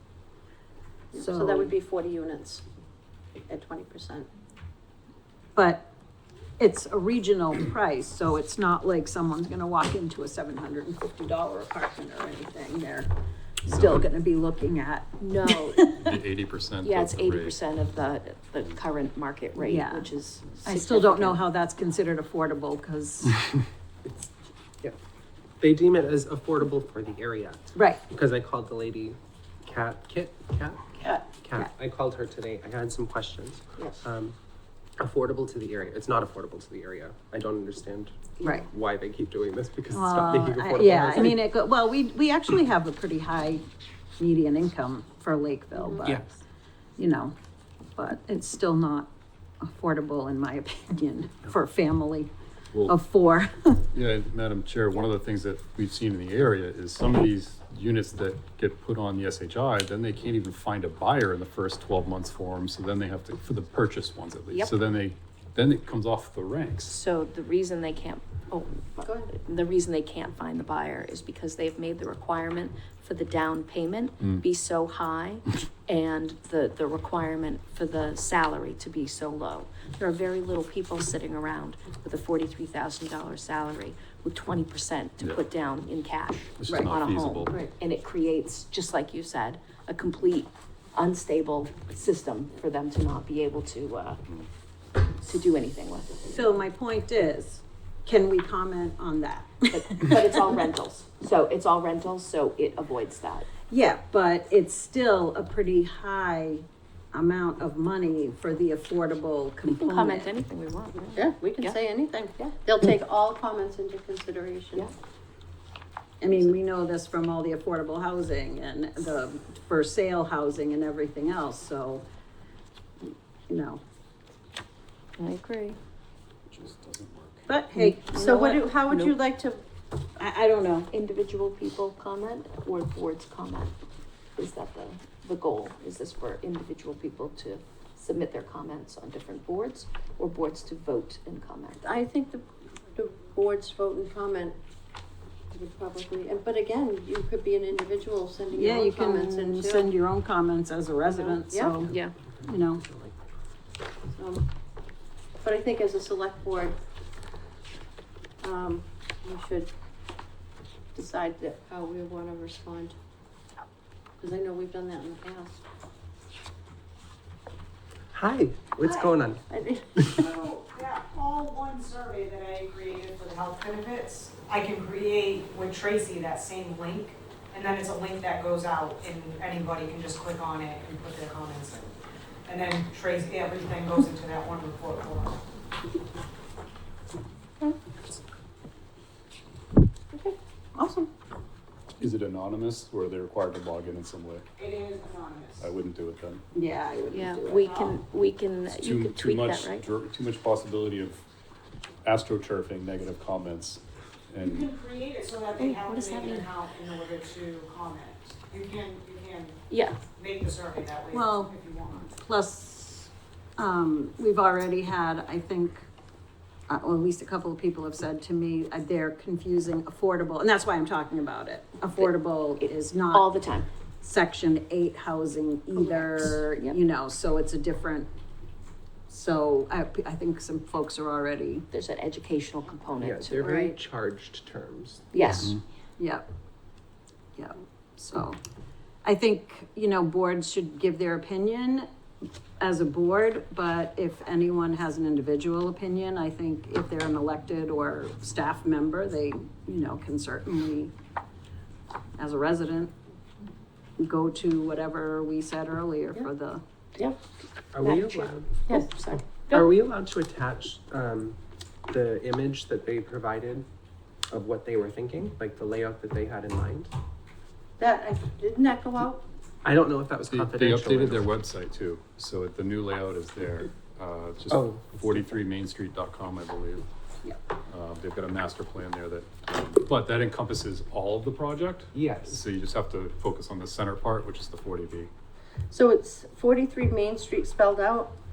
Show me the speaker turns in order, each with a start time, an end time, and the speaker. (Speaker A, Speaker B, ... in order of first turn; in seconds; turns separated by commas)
Speaker A: 1.1-2.6, Speaker B: 1.1-1.7, Speaker A: 3.5-4.3, Speaker B: 5.5-5.9, Speaker B: 6.6-13.1, Speaker B: 13.7-16.2, Speaker C: 13.7-14.1, Speaker D: 13.7-14.0, Speaker C: 15.2-15.9, Speaker D: 16.0-17.6, Speaker C: 16.8-21.5, Speaker B: 19.6-20.1, Speaker B: 20.6-23.5, Speaker E: 25.6-30.9, Speaker B: 27.8-28.0, Speaker E: 31.4-34.4, Speaker E: 35.0-41.5, Speaker B: 38.4-38.7, Speaker B: 39.9-43.6, Speaker B: 44.2-46.2, Speaker B: 47.0-47.4, Speaker B: 48.0-52.3, Speaker B: 52.9-53.8, Speaker D: 53.9-67.0, Speaker C: 66.8-94.2, Speaker A: 69.0-69.3, Speaker D: 86.6-87.5, Speaker C: 95.2-96.3, Speaker B: 96.2-100.6, Speaker C: 99.7-103.5, Speaker B: 103.7-110.3, Speaker C: 109.7-111.8, Speaker A: 111.1-114.9, Speaker B: 116.2-122.0, Speaker B: 123.0-123.8, Speaker C: 125.2-125.8, Speaker D: 126.5-127.5, Speaker B: 127.5-128.2, Speaker C: 127.8-129.1, Speaker A: 128.1-129.6, Speaker B: 130.2-130.9, Speaker C: 130.9-133.7, Speaker C: 134.4-141.9, Speaker A: 141.8-144.6, Speaker A: 145.5-149.9, Speaker B: 148.5-152.8, Speaker A: 151.1-151.8, Speaker C: 151.9-152.1, Speaker A: 154.1-154.4, Speaker A: 155.4-156.8, Speaker A: 158.4-159.7, Speaker A: 160.9-162.9, Speaker A: 164.2-165.6, Speaker E: 168.1-169.4, Speaker A: 169.5-170.4, Speaker F: 170.2-181.9, Speaker F: 182.5-185.4, Speaker A: 190.1-191.1, Speaker D: 192.0-194.4, Speaker F: 194.6-195.7, Speaker D: 195.6-196.4, Speaker B: 196.5-197.9, Speaker C: 197.1-199.8, Speaker D: 198.7-201.2, Speaker D: 202.0-204.7, Speaker F: 204.4-209.6, Speaker C: 205.6-206.5, Speaker C: 209.7-210.0, Speaker F: 210.2-212.2, Speaker B: 211.1-215.9, Speaker B: 216.7-223.3, Speaker C: 222.0-223.7, Speaker B: 224.0-228.1, Speaker B: 229.1-231.7, Speaker C: 231.7-233.7, Speaker E: 233.0-235.3, Speaker A: 233.4-233.8, Speaker C: 235.1-235.5, Speaker B: 236.0-236.3, Speaker B: 237.4-238.4, Speaker B: 239.0-241.9, Speaker B: 242.6-250.9, Speaker B: 252.2-252.9, Speaker B: 254.0-256.6, Speaker E: 257.7-258.8, Speaker C: 257.8-259.7, Speaker E: 259.5-263.7, Speaker E: 264.3-266.9, Speaker A: 267.8-269.2, Speaker E: 269.6-271.3, Speaker D: 270.3-276.9, Speaker E: 274.5-275.4, Speaker D: 277.7-285.1, Speaker E: 281.9-282.5, Speaker A: 285.7-288.1